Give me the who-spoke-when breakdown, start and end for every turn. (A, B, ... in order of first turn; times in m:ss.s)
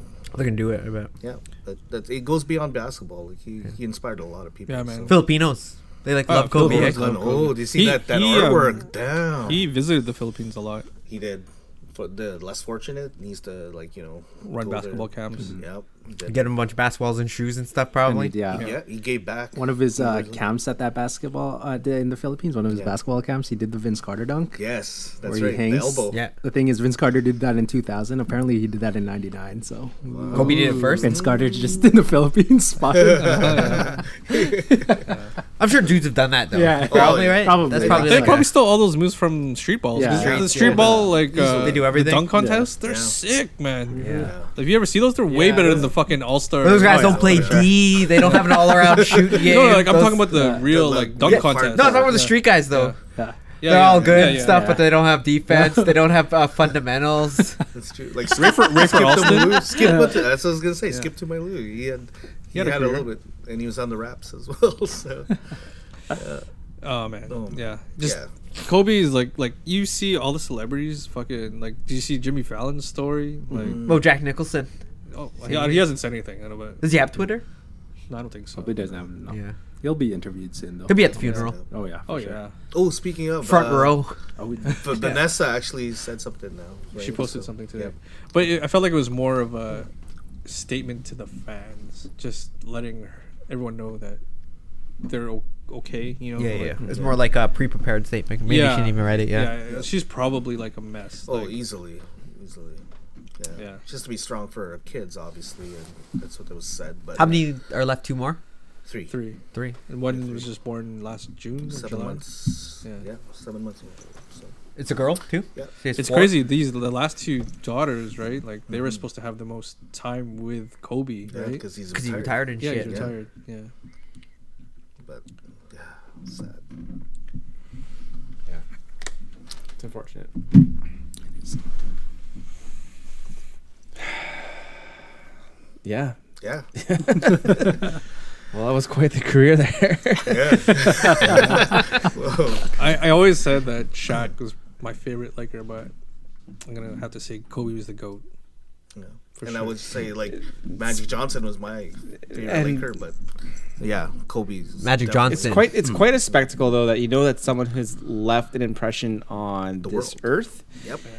0:00.3-0:01.1 A
0:01.2-0:05.2 B
0:04.7-0:05.2 C
0:05.1-0:07.0 A
0:06.3-0:08.9 C
0:06.6-0:09.7 B
0:09.4-0:10.9 C
0:11.1-0:16.4 B
0:14.4-0:15.5 C
0:16.3-0:18.7 A
0:18.0-0:18.7 D
0:18.5-0:20.4 B
0:19.6-0:24.6 D
0:24.6-0:26.2 B
0:25.2-0:35.1 D
0:30.0-0:31.5 B
0:30.3-0:30.9 C
0:30.3-0:31.3 A
0:33.0-0:35.0 B
0:33.2-0:33.9 C
0:35.6-0:38.5 A
0:36.5-0:38.4 D
0:36.8-0:38.5 B
0:37.8-0:47.3 C
0:40.0-0:41.0 D
0:40.0-0:42.4 A
0:40.1-0:41.9 B
0:42.3-0:42.7 D
0:42.8-0:43.2 B
0:43.9-0:44.3 D
0:44.0-0:44.3 A
0:44.2-0:44.5 B
0:45.3-0:45.9 A
0:45.5-0:45.9 B
0:45.5-0:45.8 D
0:46.6-0:50.4 A
0:46.8-0:47.8 D
0:46.8-0:49.4 B
0:48.2-0:52.2 C
0:50.3-0:50.7 D
0:50.6-0:52.2 B
0:51.2-0:53.0 A
0:52.1-0:52.4 D
0:52.7-0:53.0 C
0:53.6-0:54.8 C
0:53.6-0:57.6 A
0:53.7-0:54.6 B
0:54.5-0:54.8 D
0:55.5-0:56.0 D
0:57.7-1:05.3 B
0:58.3-0:59.8 C
0:59.7-1:00.2 D
1:02.5-1:03.1 C
1:06.1-1:06.4 B
1:06.8-1:13.9 C
1:07.3-1:08.3 B
1:13.5-1:14.1 B
1:13.8-1:14.7 A
1:15.1-1:16.8 C
1:15.4-1:15.9 A
1:16.8-1:17.4 A
1:18.1-1:18.8 C
1:18.6-1:22.4 D
1:19.3-1:19.6 A
1:20.9-1:21.6 A
1:21.2-1:21.7 B
1:22.1-1:22.6 C
1:22.7-1:24.0 B
1:23.4-1:24.2 A
1:24.4-1:24.9 D
1:24.8-1:27.9 B
1:27.0-1:29.9 C
1:30.4-1:34.2 C
1:35.0-1:36.9 C
1:36.4-1:39.6 A
1:36.8-1:37.2 B
1:38.4-1:41.6 C
1:41.3-1:42.8 B
1:43.4-1:47.5 B
1:47.2-1:48.4 A
1:48.8-1:49.2 B
1:49.1-1:52.2 C
1:50.1-1:50.5 B
1:51.6-1:54.6 B
1:54.8-1:56.4 A
1:56.0-2:01.6 C
1:58.7-1:59.0 B
2:01.3-2:03.1 B
2:01.9-2:03.1 A
2:02.6-2:03.7 C
2:05.0-2:06.6 B
2:09.8-2:10.3 E
2:15.8-2:16.2 E
2:16.4-2:16.7 B
2:16.8-2:17.8 E
2:18.5-2:21.4 E
2:20.3-2:22.9 B
2:21.3-2:21.6 C
2:22.8-2:25.9 C
2:26.7-2:28.2 C
2:29.0-2:33.2 B
2:29.4-2:29.8 C
2:32.3-2:32.9 E
2:33.8-2:35.8 B
2:34.8-2:35.7 A
2:35.3-2:40.6 E
2:39.8-2:40.2 B